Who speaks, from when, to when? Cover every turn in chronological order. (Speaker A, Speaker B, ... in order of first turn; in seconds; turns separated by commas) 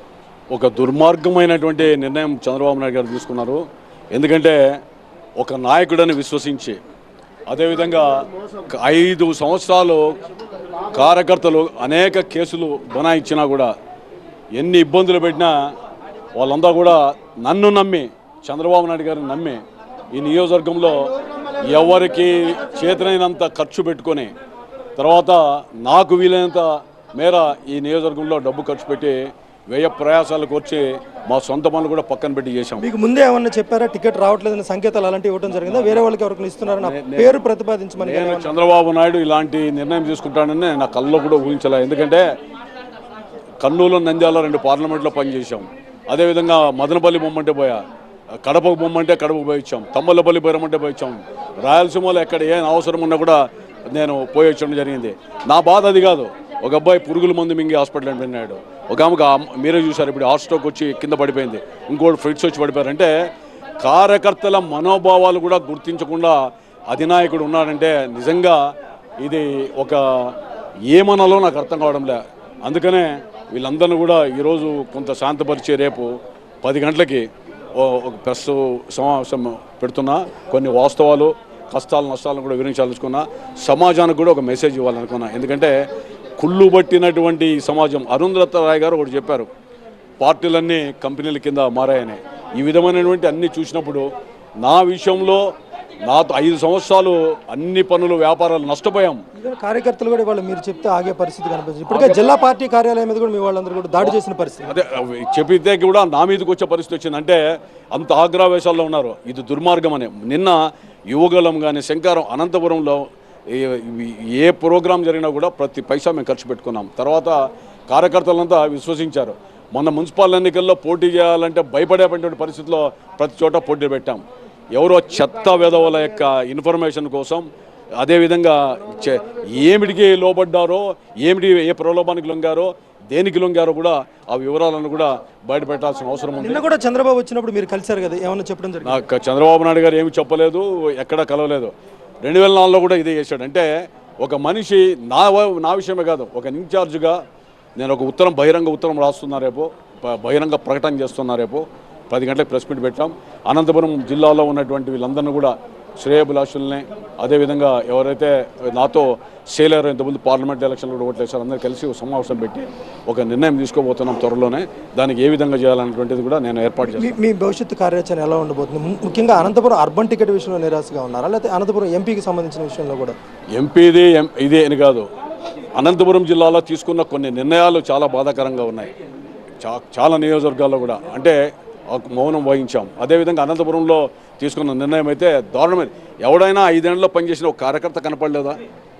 Speaker A: 0.5-3.6, Speaker A: 4.1-4.8, Speaker A: 5.4-6.8, Speaker A: 7.5-8.1, Speaker A: 8.7-10.1, Speaker A: 10.9-13.7, Speaker A: 14.6-15.6, Speaker A: 16.4-19.6, Speaker A: 20.1-21.0, Speaker A: 21.6-24.3, Speaker A: 25.0-32.8, Speaker B: 32.8-38.5, Speaker A: 35.7-36.0, Speaker A: 36.8-37.4, Speaker A: 38.0-42.2, Speaker A: 43.6-47.8, Speaker A: 48.4-63.1, Speaker A: 63.8-68.6, Speaker A: 69.2-70.3, Speaker A: 70.9-76.1, Speaker A: 76.6-85.7, Speaker A: 86.4-89.5, Speaker A: 90.2-94.1, Speaker A: 94.6-95.5, Speaker A: 96.0-99.2, Speaker B: 99.4-104.7, Speaker A: 104.7-107.4, Speaker A: 107.9-110.6, Speaker A: 111.1-117.4, Speaker A: 117.9-124.2, Speaker A: 124.7-127.5, Speaker A: 128.0-136.6, Speaker B: 136.4-139.0, Speaker A: 138.8-141.7, Speaker A: 142.2-143.7, Speaker A: 144.2-147.2, Speaker A: 147.8-167.2, Speaker B: 166.8-173.2, Speaker A: 173.5-175.1, Speaker A: 175.8-178.9, Speaker A: 179.6-181.4, Speaker A: 181.9-188.6